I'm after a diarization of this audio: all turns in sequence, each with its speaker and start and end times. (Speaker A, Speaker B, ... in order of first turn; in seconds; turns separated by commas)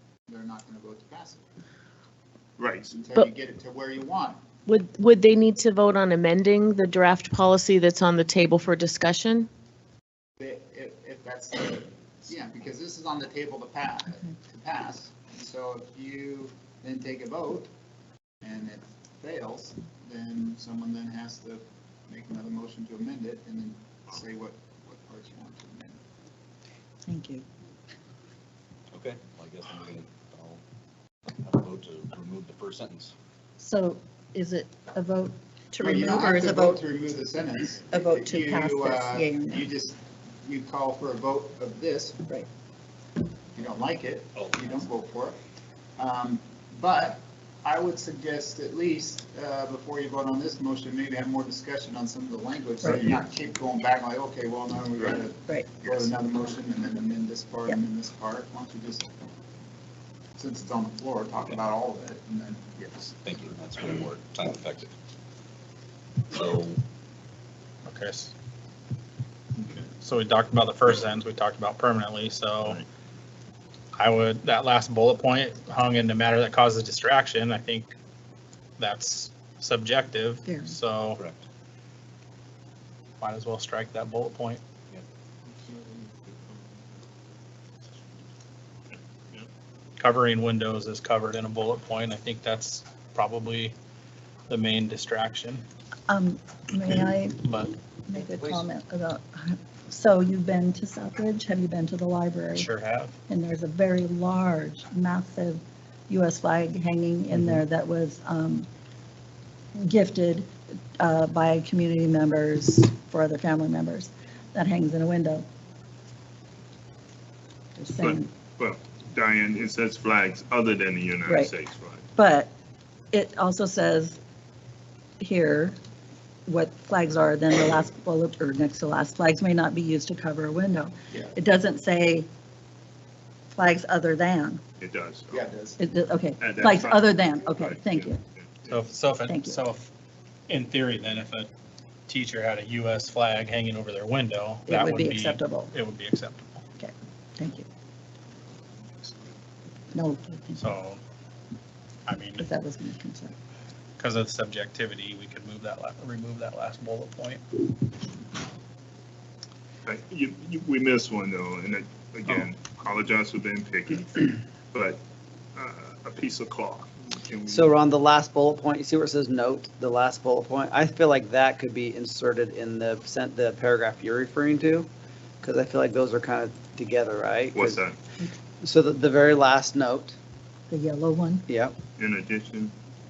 Speaker A: 0.3-1.5, Speaker B: 2.6-3.0, Speaker A: 2.9-4.4, Speaker C: 4.7-9.5, Speaker A: 10.4-17.7, Speaker A: 18.4-26.0, Speaker D: 27.1-27.4, Speaker E: 28.9-30.6, Speaker E: 31.4-33.1, Speaker D: 33.6-36.8, Speaker A: 35.8-42.2, Speaker D: 37.9-39.6, Speaker A: 43.5-45.4, Speaker E: 44.4-44.8, Speaker A: 46.0-59.1, Speaker A: 60.4-62.9, Speaker E: 63.1-64.9, Speaker E: 66.3-66.8, Speaker F: 67.8-68.3, Speaker F: 69.7-72.8, Speaker F: 73.9-77.9, Speaker F: 78.8-81.2, Speaker D: 80.5-80.7, Speaker E: 81.2-81.4, Speaker F: 83.2-84.6, Speaker B: 85.6-86.8, Speaker B: 88.9-89.5, Speaker F: 90.0-93.7, Speaker F: 94.5-95.6, Speaker D: 96.1-97.5, Speaker F: 97.4-97.7, Speaker D: 98.1-102.7, Speaker E: 98.3-98.6, Speaker F: 102.5-103.2, Speaker D: 103.3-108.7, Speaker D: 109.8-115.5, Speaker D: 117.8-118.3, Speaker B: 118.0-122.0, Speaker D: 121.2-121.5, Speaker D: 122.1-122.5, Speaker D: 123.1-124.2, Speaker D: 125.2-125.8, Speaker D: 126.5-132.3, Speaker D: 133.5-134.6, Speaker B: 134.8-135.5, Speaker A: 135.3-135.8, Speaker D: 135.8-138.2, Speaker B: 136.4-138.8, Speaker F: 138.7-139.9, Speaker D: 139.3-139.6, Speaker F: 140.5-141.5, Speaker F: 142.1-146.6, Speaker D: 144.7-145.7, Speaker D: 146.8-147.6, Speaker D: 149.9-150.7, Speaker F: 150.6-151.0, Speaker F: 152.1-152.4, Speaker D: 152.4-153.3, Speaker F: 154.0-157.6, Speaker B: 159.8-165.0, Speaker B: 165.6-167.7, Speaker G: 167.5-174.9, Speaker G: 175.4-177.8, Speaker B: 177.5-177.9, Speaker G: 178.6-180.2, Speaker D: 180.7-181.4, Speaker G: 181.5-181.8, Speaker B: 182.0-182.7